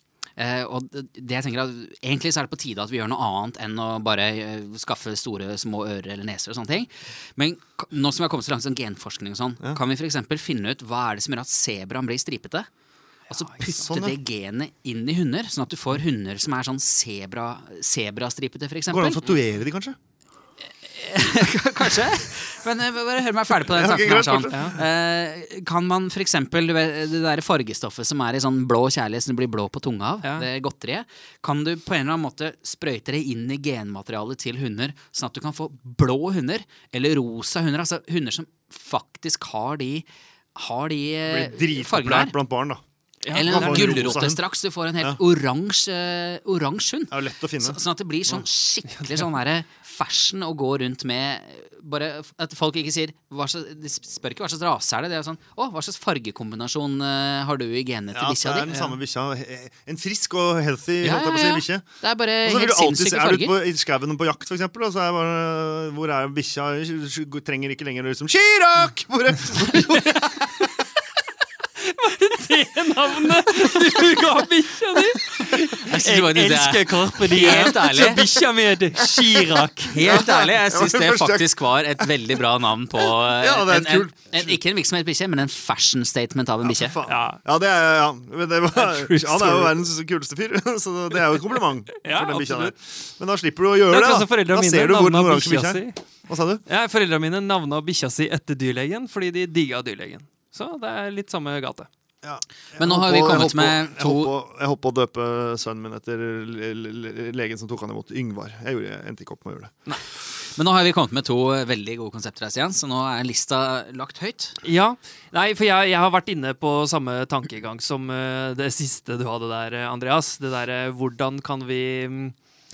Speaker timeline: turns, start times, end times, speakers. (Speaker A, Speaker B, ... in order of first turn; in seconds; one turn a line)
Speaker A: 0.4-12.7
Speaker B: 13.3-13.7
Speaker A: 13.3-19.4
Speaker C: 13.7-14.2
Speaker C: 18.9-20.0
Speaker A: 20.8-42.4
Speaker C: 23.7-24.7
Speaker B: 24.5-24.8
Speaker C: 41.3-42.8
Speaker B: 43.2-44.1
Speaker A: 43.3-58.7
Speaker C: 43.4-44.4
Speaker C: 47.1-48.4
Speaker B: 48.9-49.3
Speaker C: 58.1-61.9
Speaker B: 58.7-59.0
Speaker A: 61.0-63.6
Speaker C: 62.4-70.7
Speaker B: 71.8-80.0
Speaker A: 75.7-78.3
Speaker A: 79.9-87.0
Speaker C: 80.0-82.1
Speaker C: 83.3-84.6
Speaker C: 86.6-96.6
Speaker B: 87.1-87.4
Speaker B: 88.7-89.8
Speaker B: 92.0-92.7
Speaker B: 93.9-96.0
Speaker B: 96.7-101.9
Speaker C: 102.2-109.7
Speaker A: 102.8-104.3
Speaker A: 110.4-114.6
Speaker B: 114.6-122.3